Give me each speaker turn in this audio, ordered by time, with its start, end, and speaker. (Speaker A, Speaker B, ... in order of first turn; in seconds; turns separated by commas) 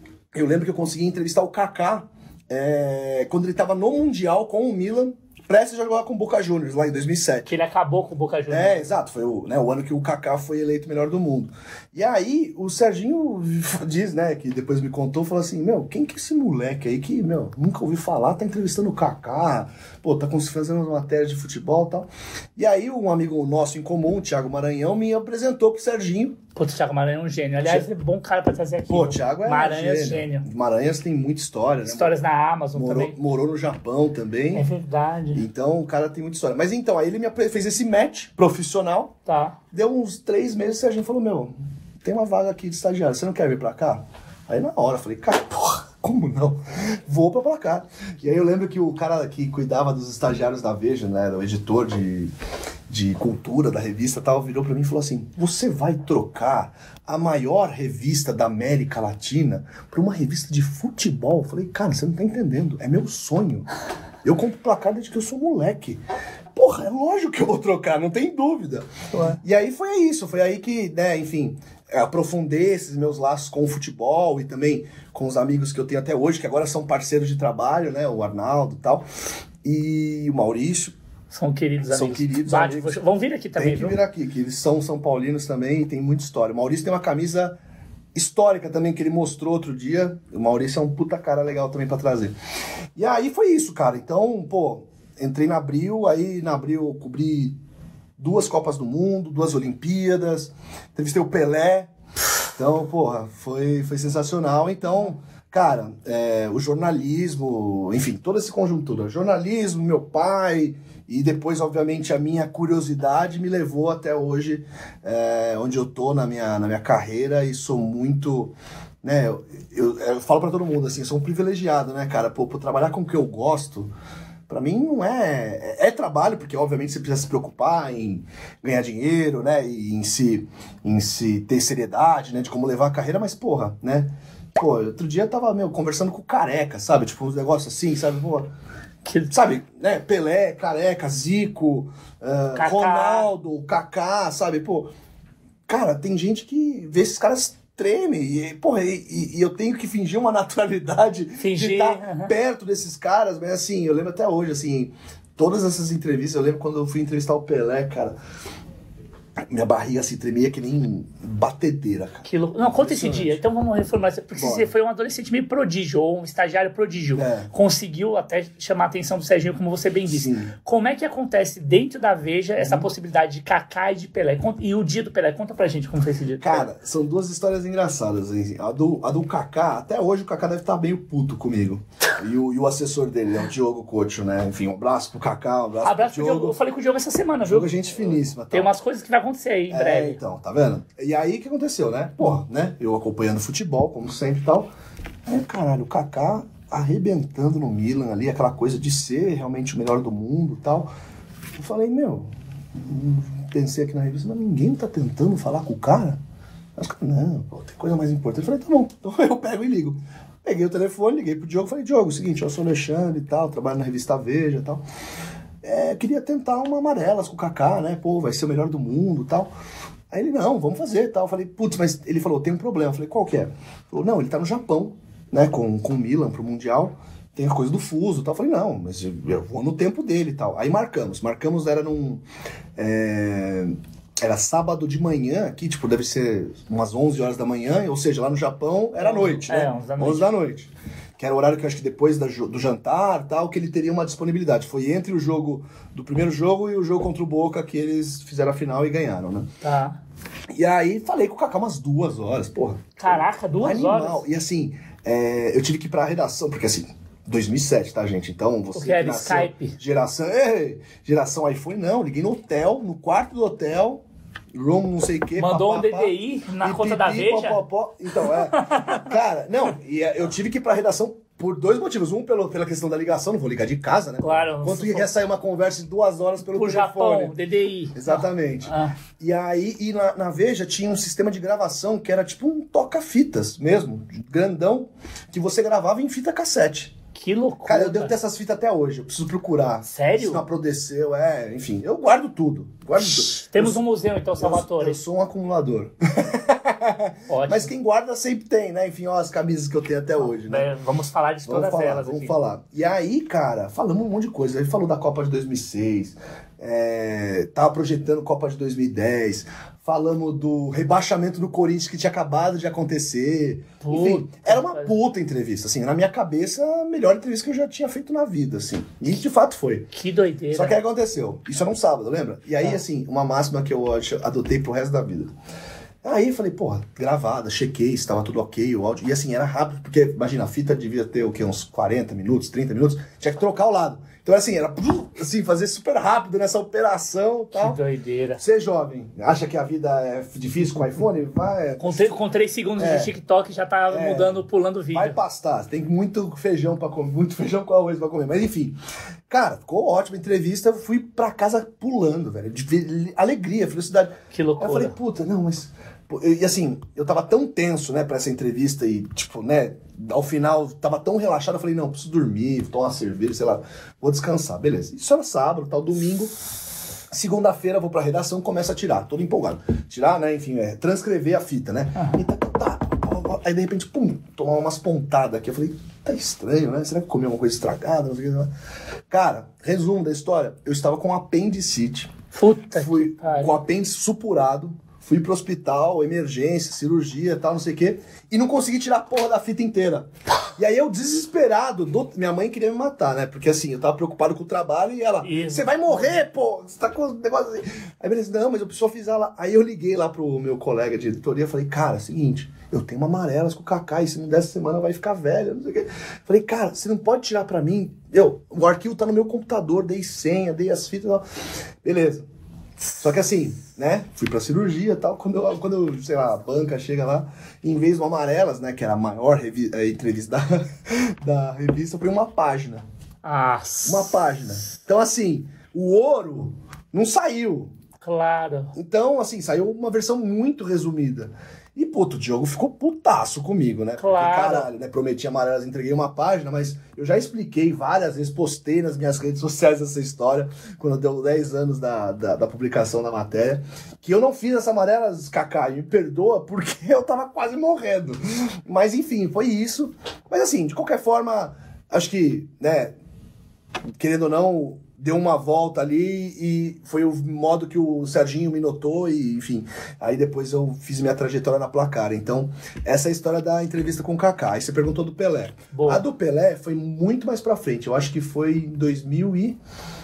Speaker A: 0.3-7.5, Speaker B: 7.5-8.8, Speaker A: 8.5-26.4, Speaker B: 26.5-30.5, Speaker A: 28.9-32.2, Speaker B: 31.8-33.1, Speaker A: 32.7-34.6, Speaker B: 34.5-35.4, Speaker A: 35.3-39.1, Speaker B: 39.2-39.6, Speaker A: 39.7-41.5, Speaker A: 42.0-52.3, Speaker A: 52.9-63.7, Speaker A: 64.2-66.0, Speaker A: 66.5-79.0, Speaker A: 79.6-80.9, Speaker B: 81.3-84.0, Speaker A: 81.9-83.0, Speaker A: 83.5-87.5, Speaker A: 88.1-92.3, Speaker A: 93.0-97.5, Speaker A: 98.2-101.9, Speaker A: 102.5-123.9, Speaker A: 124.5-138.5, Speaker B: 139.0-139.3, Speaker A: 139.3-144.9, Speaker B: 142.5-143.3, Speaker A: 145.7-158.2, Speaker B: 151.4-152.3, Speaker A: 159.4-163.4, Speaker B: 162.2-176.7, Speaker A: 164.3-164.7, Speaker A: 167.2-167.5, Speaker A: 170.1-170.5, Speaker A: 172.6-172.9, Speaker A: 176.4-186.6, Speaker B: 185.8-187.7, Speaker A: 187.5-188.7, Speaker B: 188.5-190.2, Speaker A: 189.7-194.7, Speaker A: 195.2-200.9, Speaker A: 201.6-206.2, Speaker A: 206.8-214.8, Speaker A: 215.6-219.5, Speaker A: 220.1-232.2, Speaker A: 232.8-249.5, Speaker B: 239.0-240.3, Speaker B: 249.6-250.0, Speaker A: 250.5-277.3, Speaker B: 253.0-254.2, Speaker B: 258.7-259.8, Speaker B: 265.4-267.6, Speaker B: 268.2-269.1, Speaker B: 274.2-275.1, Speaker B: 276.5-278.9, Speaker A: 277.9-286.9, Speaker B: 287.1-288.1, Speaker A: 287.6-293.8, Speaker B: 289.9-290.4, Speaker B: 293.0-295.0, Speaker A: 294.4-300.7, Speaker B: 297.3-297.7, Speaker B: 300.2-302.3, Speaker A: 301.4-319.9, Speaker B: 313.8-314.9, Speaker B: 319.9-320.8, Speaker A: 320.5-325.3, Speaker A: 326.0-337.8, Speaker B: 337.5-338.4, Speaker A: 338.4-342.0, Speaker B: 341.8-345.2, Speaker A: 342.8-343.1, Speaker A: 343.9-344.4, Speaker A: 344.9-348.8, Speaker A: 349.3-366.3, Speaker B: 354.3-354.9, Speaker A: 367.1-378.5, Speaker B: 372.0-372.2, Speaker A: 379.1-382.1, Speaker B: 382.3-383.5, Speaker A: 382.7-411.2, Speaker B: 395.2-396.2, Speaker A: 411.8-412.2, Speaker A: 413.0-422.8, Speaker B: 423.2-424.4, Speaker A: 423.8-427.7, Speaker B: 428.0-428.7, Speaker A: 428.7-452.9, Speaker B: 434.0-434.7, Speaker A: 454.0-469.6, Speaker B: 465.7-466.0